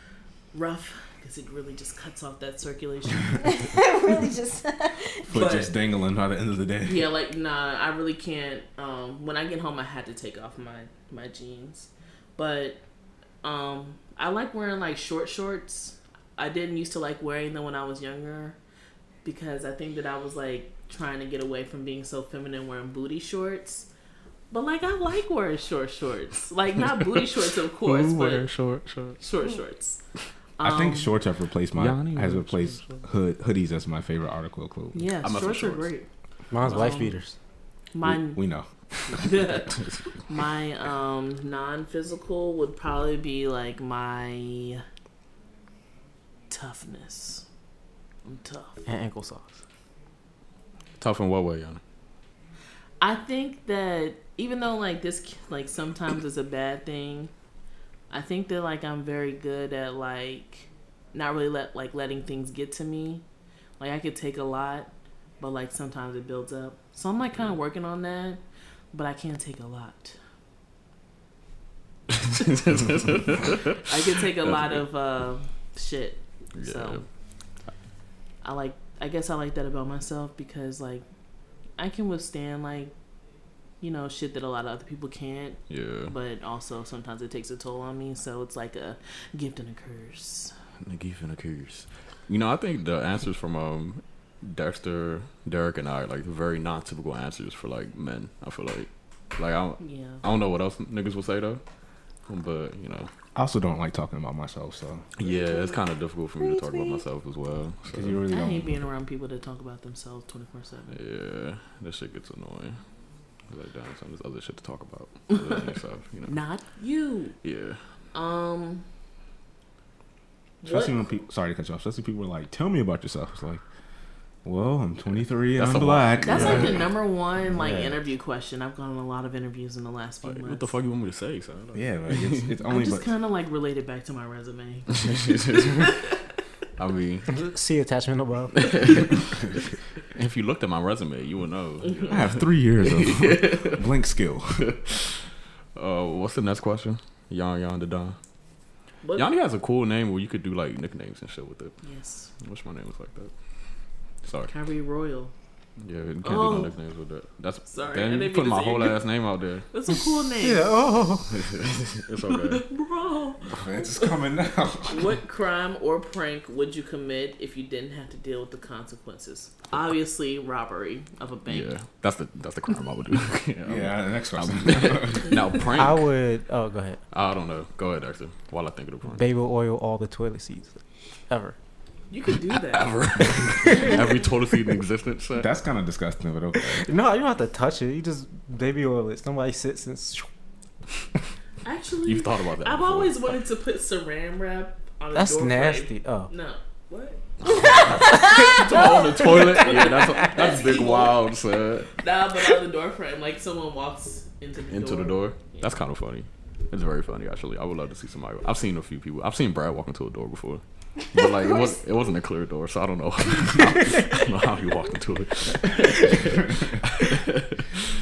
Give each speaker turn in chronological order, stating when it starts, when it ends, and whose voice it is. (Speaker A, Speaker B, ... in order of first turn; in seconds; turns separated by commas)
Speaker A: 0.5-3.6, Speaker B: 3.4-5.3, Speaker A: 5.3-5.7, Speaker C: 5.3-7.1, Speaker A: 6.8-12.8, Speaker A: 13.4-18.6, Speaker A: 19.2-23.9, Speaker A: 24.5-28.5, Speaker D: 26.8-27.2, Speaker D: 27.8-29.2, Speaker A: 29.2-30.0, Speaker A: 30.6-31.1, Speaker C: 30.6-35.1, Speaker D: 31.7-33.0, Speaker A: 34.9-36.1, Speaker D: 35.2-35.9, Speaker E: 36.5-37.4, Speaker A: 36.6-37.2, Speaker D: 36.6-37.0, Speaker A: 37.9-38.4, Speaker C: 38.0-39.3, Speaker A: 39.1-44.8, Speaker A: 46.5-47.4, Speaker A: 48.2-48.8, Speaker E: 48.9-49.6, Speaker D: 51.0-51.8, Speaker A: 53.0-57.3, Speaker A: 58.1-63.2, Speaker A: 63.8-68.4, Speaker A: 68.9-70.2, Speaker D: 72.1-74.8, Speaker A: 73.8-77.0, Speaker D: 76.5-77.0, Speaker A: 78.4-81.0, Speaker A: 81.8-82.9, Speaker A: 83.8-90.5, Speaker D: 85.7-86.1, Speaker D: 90.8-101.6, Speaker A: 99.8-100.2, Speaker D: 102.3-103.1, Speaker C: 103.3-105.0, Speaker D: 105.2-108.2, Speaker B: 105.2-107.0, Speaker C: 107.9-108.8, Speaker A: 108.3-110.9, Speaker D: 110.9-112.8, Speaker D: 113.5-116.4, Speaker A: 115.3-115.6, Speaker A: 116.3-117.4, Speaker D: 117.4-117.8, Speaker A: 118.1-118.8, Speaker A: 120.6-121.0, Speaker C: 120.6-123.6, Speaker C: 124.4-126.8, Speaker D: 125.5-126.9, Speaker A: 126.2-130.7, Speaker C: 127.5-127.9, Speaker D: 130.2-132.6, Speaker C: 131.7-133.1, Speaker A: 132.6-136.2, Speaker D: 134.9-135.9, Speaker D: 136.8-137.4, Speaker E: 137.3-138.7, Speaker D: 138.5-139.2, Speaker D: 140.1-143.9, Speaker A: 141.8-142.2, Speaker C: 142.1-144.7, Speaker D: 144.6-145.2, Speaker D: 145.7-148.2, Speaker A: 149.0-149.3, Speaker D: 149.1-151.7, Speaker A: 151.8-152.3, Speaker D: 152.4-153.3, Speaker D: 154.2-154.5, Speaker A: 154.5-155.3, Speaker D: 155.8-159.7, Speaker A: 156.2-156.7, Speaker A: 157.7-159.0, Speaker A: 159.7-160.7, Speaker E: 160.4-161.5, Speaker D: 161.3-162.6, Speaker A: 162.2-164.1, Speaker C: 163.4-165.1, Speaker A: 164.9-171.7, Speaker D: 171.5-176.0, Speaker C: 173.6-175.5, Speaker E: 175.7-177.0, Speaker D: 177.1-179.2, Speaker E: 179.1-180.8, Speaker E: 181.3-181.6, Speaker A: 182.1-182.9, Speaker D: 182.6-185.5, Speaker A: 183.7-184.0, Speaker C: 185.3-186.9, Speaker E: 186.8-190.3, Speaker A: 191.6-201.2, Speaker D: 192.0-193.3, Speaker E: 195.1-196.3, Speaker D: 197.4-202.0, Speaker B: 197.8-198.6, Speaker A: 202.0-205.7, Speaker D: 204.7-217.7, Speaker B: 211.2-211.8, Speaker C: 216.1-216.8